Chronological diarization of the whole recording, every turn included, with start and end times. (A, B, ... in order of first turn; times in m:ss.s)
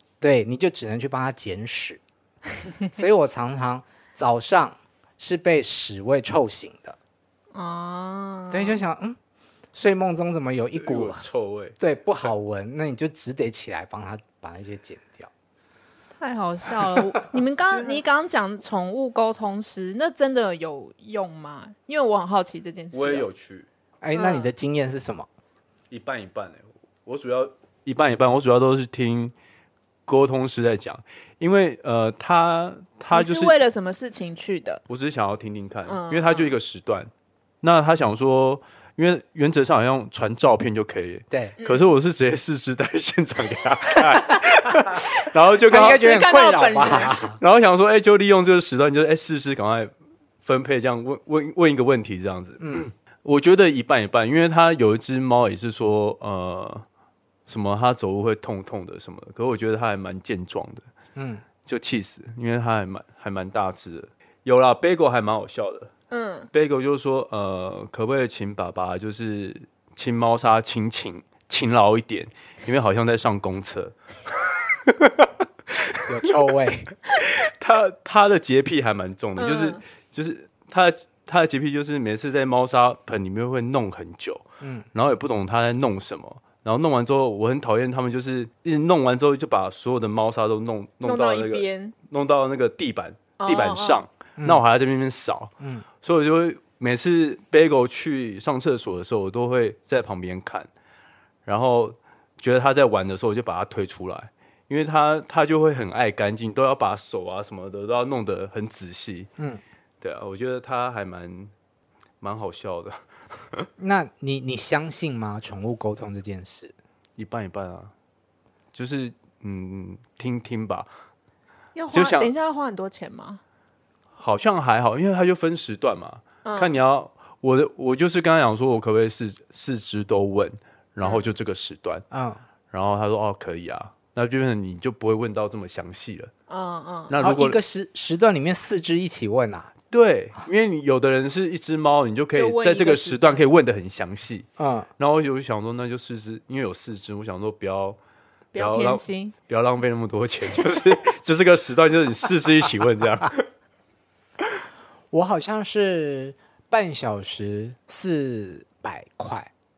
0:00.2-0:02.0 A
0:02.9-0:07.0 A
0:07.5-0:08.8 B
0:08.5-0:09.2 A
0:09.7-0:11.2 A
0:10.8-0:11.8 C
0:11.8-0:15.3 A
0:16.2-0:23.3 B
0:22.9-0:23.7 C
0:24.0-0:25.3 A
0:24.2-0:24.5 B
0:25.9-0:29.3 C
0:30.1-0:33.6 C
0:33.1-0:34.8 B
0:34.9-0:37.1 C
0:35.9-0:36.5 B
0:37.6-0:46.1 C
0:41.3-0:41.6 A
0:41.6-0:41.9 B
0:45.7-0:47.4 A
0:45.7-0:47.2 B
0:47.4-0:49.9 C
0:50.4-0:56.9 C
0:52.6-0:52.9 A
0:57.5-1:00.9 C
1:01.2-1:01.4 A
1:01.6-1:05.9 C
1:06.1-1:06.5 B
1:06.5-1:14.0 C
1:14.8-1:15.3 C
1:16.1-1:16.9 A
1:17.1-1:35.5 C
1:19.4-1:19.8 B
1:24.6-1:24.9 A
1:31.0-1:32.0 B
1:33.4-1:34.0 B
1:34.4-1:34.6 A
1:35.6-1:35.8 A
1:36.0-1:40.7 C
1:41.4-1:49.3 C
1:50.0-1:51.5 C
1:52.2-1:53.7 C
1:53.8-1:56.7 A
1:57.2-1:57.9 C
1:58.7-2:00.9 C
2:01.8-2:03.4 B
2:01.9-2:02.3 C
2:04.2-2:12.0 C
2:06.4-2:06.7 B
2:11.0-2:11.3 B
2:12.1-2:12.4 A
2:12.7-2:16.3 C
2:16.5-2:17.1 B
2:17.1-2:17.6 C
2:17.2-2:19.7 A
2:19.9-2:24.5 C
2:22.3-2:23.4 B
2:24.6-2:24.9 A
2:25.0-2:28.0 C
2:28.5-2:29.3 B
2:28.6-2:33.4 C
2:35.1-2:39.5 A